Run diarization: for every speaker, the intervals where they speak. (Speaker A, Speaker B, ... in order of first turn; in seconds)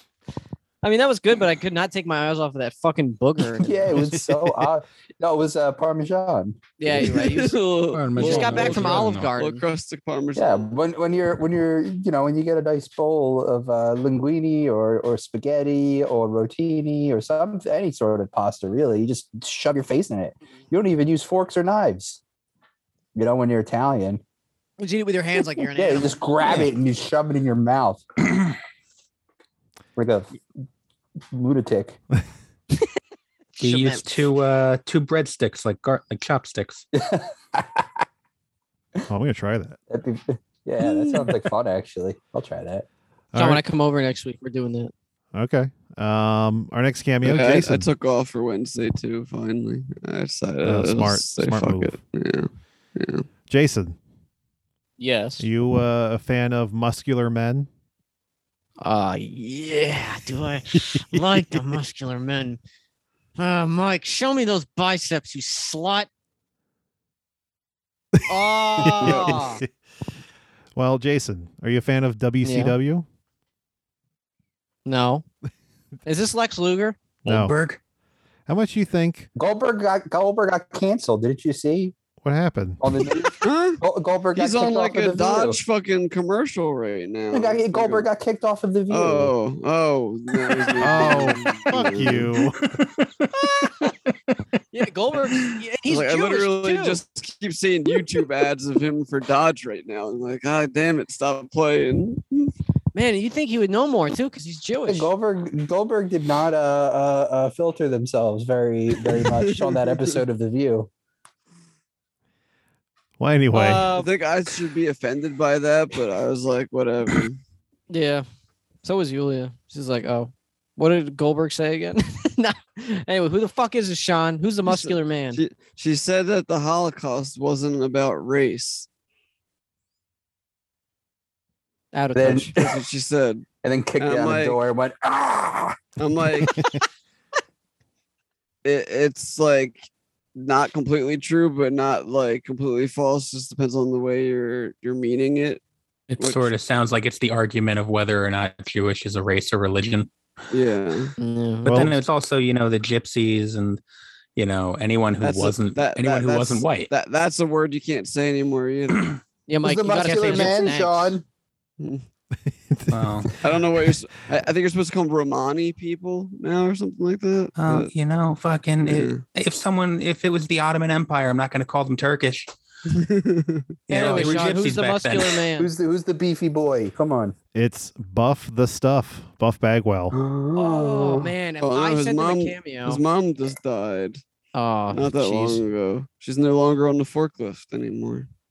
Speaker A: 0.8-4.0, 6.8-7.6, 8.2-9.6, 24.8-26.6, 33.6-34.1, 43.4-44.9, 55.0-55.5, 58.8-62.6, 63.4-66.1, 68.3-69.6, 72.4-72.8, 74.9-75.2, 76.1-77.0, 94.7-97.0, 102.9-105.1, 113.5-114.1, 117.9-118.2, 118.8-125.4, 131.9-132.5, 151.2-151.9, 159.5-161.2, 173.9-175.7, 180.6-183.0, 184.5-185.6
Speaker B: 3.6-7.2, 10.4-22.2, 23.1-24.2, 25.7-28.0, 30.0-30.3, 31.3-32.0, 36.9-37.9, 39.9-42.9, 79.4-82.0, 82.8-85.6, 87.3-89.3, 104.9-110.9, 132.2-132.8, 133.6-135.8, 159.6-161.2, 175.6-177.3, 180.1-181.3
Speaker C: 6.9-10.7, 47.2-53.3, 69.0-69.4, 83.4-83.8, 84.3-88.1, 88.9-92.4, 95.9-102.5, 109.1-110.1, 114.0-117.4, 124.7-128.9, 132.5-133.4, 134.0-134.6, 136.0-136.5, 138.7-145.6, 146.2-146.5, 150.5-151.2, 155.2-159.1, 160.1-160.5, 161.8-162.1, 163.4-167.9, 168.8-169.2, 172.9-173.7, 181.6-184.2, 184.9-188.3
Speaker D: 7.9-9.3, 33.6-36.9, 77.3-77.8, 92.6-92.9, 146.2-150.1, 151.7-153.8, 154.4-156.9, 162.9-163.3, 167.6-172.5, 173.9-175.4
Speaker E: 39.1-39.8, 43.3-43.6, 45.4-47.9, 50.6-52.0, 53.5-54.0, 55.4-57.7, 68.8-69.7, 70.8-73.1, 77.2-77.6, 78.5-79.3, 82.2-82.8, 90.8-92.6, 113.2-113.9, 151.7-151.9, 162.7-164.2, 177.6-180.2